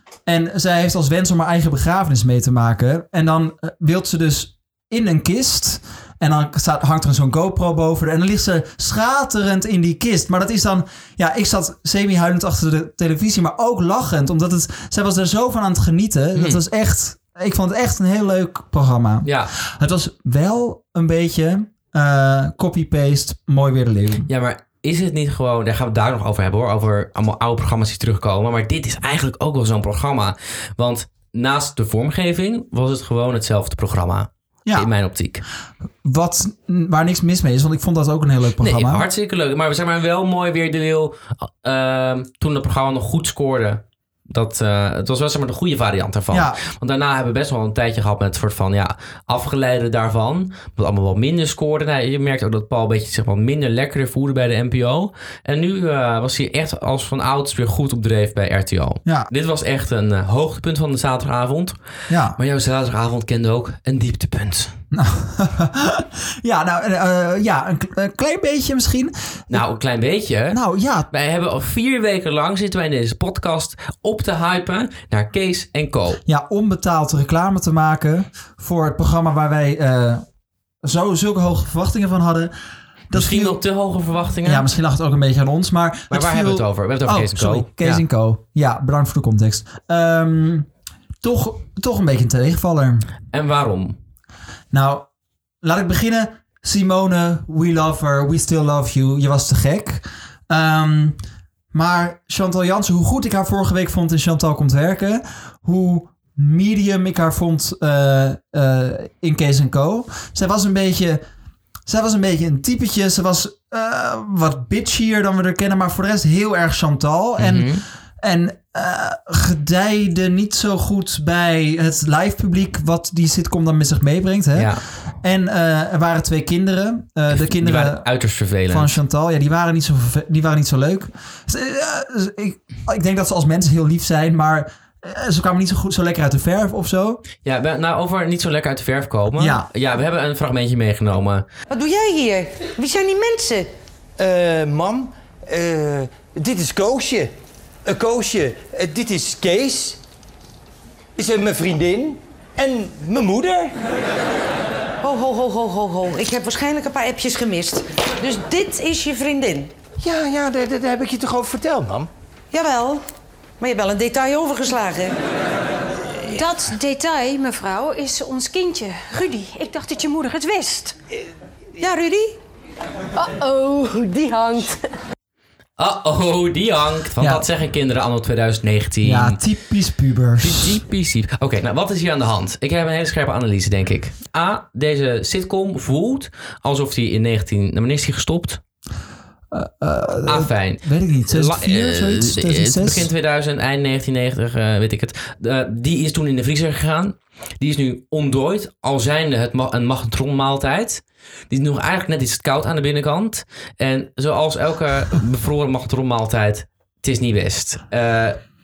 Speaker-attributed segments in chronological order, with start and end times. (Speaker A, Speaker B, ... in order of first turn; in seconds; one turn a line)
Speaker A: 0.3-24.3
Speaker B: 16.4-16.6
Speaker B: 19.2-19.5
Speaker B: 24.3-35.4
Speaker A: 36.0-39.0
Speaker B: 38.6-61.8
Speaker A: 46.3-46.6
Speaker A: 62.1-62.4
Speaker B: 62.4-64.7
Speaker A: 64.9-69.6
Speaker B: 69.5-70.6
Speaker A: 70.5-71.1
Speaker B: 71.1-76.2
Speaker A: 76.2-80.2
Speaker A: 80.8-82.5
Speaker A: 83.1-83.6
Speaker B: 83.1-84.6
Speaker A: 84.4-90.7
Speaker B: 86.1-88.0
Speaker A: 91.2-93.1
Speaker B: 93.3-94.0
Speaker A: 94.7-95.0
Speaker A: 95.6-101.2
Speaker A: 101.7-111.2
Speaker A: 111.9-128.1
Speaker B: 117.4-117.8
Speaker B: 124.5-124.8
Speaker B: 127.5-129.0
Speaker A: 128.7-137.2
Speaker B: 137.4-141.4
Speaker A: 139.4-139.7
Speaker C: 141.7-143.7
Speaker D: 144.2-147.3
Speaker D: 147.8-150.0
Speaker D: 151.2-153.7
Speaker C: 155.0-159.7
Speaker D: 160.0-162.1
Speaker C: 162.5-163.0
Speaker C: 163.6-165.1
Speaker E: 166.3-171.0
Speaker C: 171.8-172.4
Speaker C: 174.2-174.5
Speaker B: 175.8-179.4
Speaker A: 177.2-177.4
Speaker A: 179.0-180.8
Speaker B: 180.4-188.6
Speaker A: 189.5-193.1
Speaker B: 190.2-208.4